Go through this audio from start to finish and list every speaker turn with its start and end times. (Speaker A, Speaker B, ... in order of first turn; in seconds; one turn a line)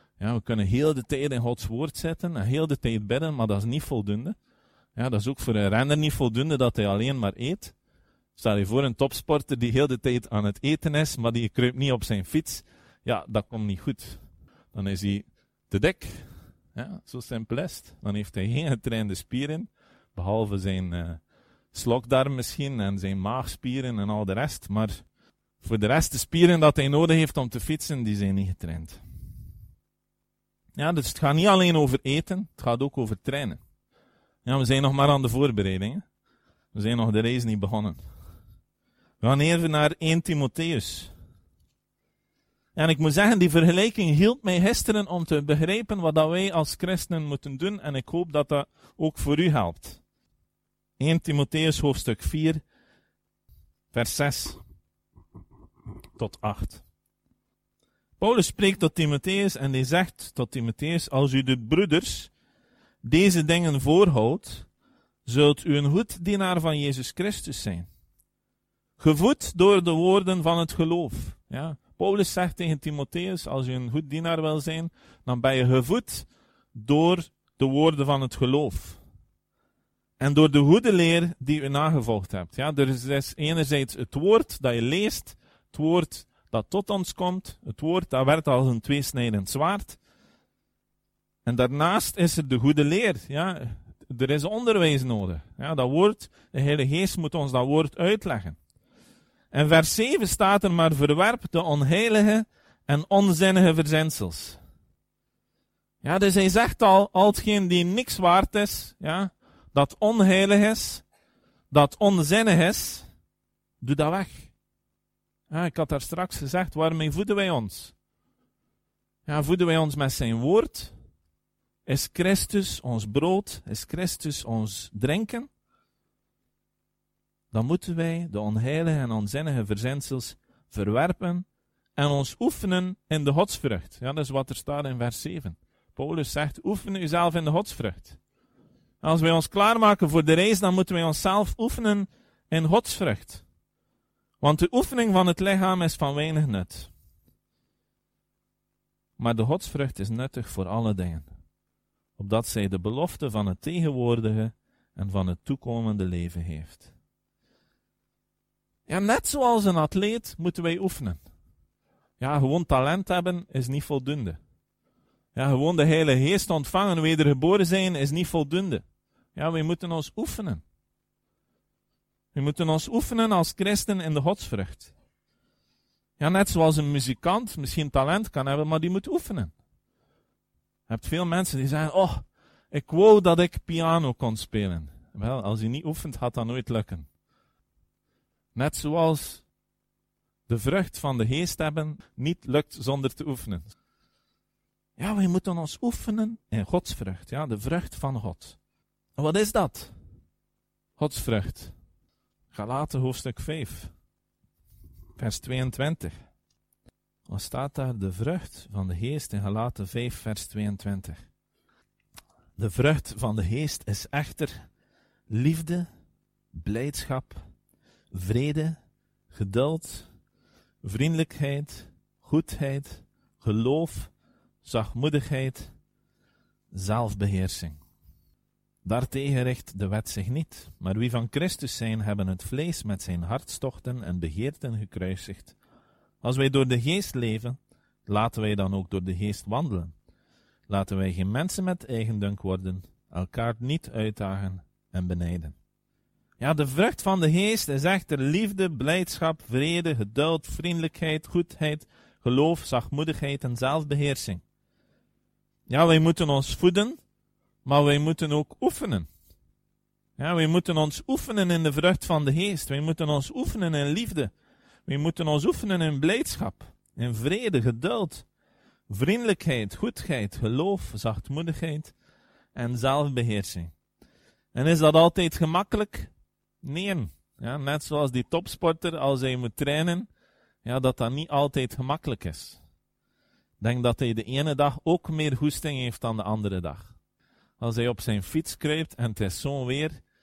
Speaker A: 0.2-4.3
Speaker A: 4.9-7.7
Speaker A: 8.3-21.2
Speaker A: 21.7-25.0
Speaker A: 25.6-29.0
Speaker A: 30.8-33.6
Speaker A: 34.4-36.0
Speaker A: 36.7-38.0
Speaker A: 39.2-41.1
Speaker A: 42.7-50.0
Speaker A: 51.0-52.6
Speaker A: 53.9-54.6
Speaker A: 56.2-56.8
Speaker A: 58.2-62.3
Speaker A: 63.0-64.7
Speaker A: 65.2-67.9
Speaker A: 69.0-79.0
Speaker A: 80.2-90.0
Speaker A: 91.4-98.6
Speaker A: 99.5-104.6
Speaker A: 106.0-111.0
Speaker A: 111.7-113.1
Speaker A: 113.8-114.5
Speaker A: 115.5-117.9
Speaker A: 119.2-120.9
Speaker A: 121.8-125.5
Speaker A: 127.5-131.4
Speaker A: 132.0-138.2
Speaker A: 139.0-143.4
Speaker A: 144.4-146.9
Speaker A: 149.2-151.3
Speaker A: 152.2-156.9
Speaker A: 158.9-161.2
Speaker A: 162.2-164.4
Speaker A: 165.3-168.8
Speaker A: 169.3-170.6
Speaker A: 172.3-174.9
Speaker A: 176.2-179.5
Speaker A: 180.9-187.1
Speaker A: 188.5-189.4
Speaker A: 190.5-193.7
Speaker A: 195.0-198.6
Speaker A: 199.2-199.9
Speaker A: 201.0-201.7
Speaker A: 202.5-203.9
Speaker A: 205.2-206.2
Speaker A: 207.3-211.3
Speaker A: 212.6-214.7
Speaker A: 215.3-215.9
Speaker A: 216.5-217.4
Speaker A: 218.1-218.8
Speaker A: 219.3-220.1
Speaker A: 220.8-225.7
Speaker A: 226.7-227.8
Speaker A: 228.8-235.6
Speaker A: 236.2-239.9
Speaker A: 240.7-245.6
Speaker A: 246.4-254.4
Speaker A: 255.7-257.0
Speaker A: 257.6-259.1
Speaker A: 260.2-264.3
Speaker A: 264.9-268.2
Speaker A: 268.9-271.9
Speaker A: 272.5-273.7
Speaker A: 274.5-280.1
Speaker A: 280.6-282.6
Speaker A: 283.6-286.9
Speaker A: 287.6-290.0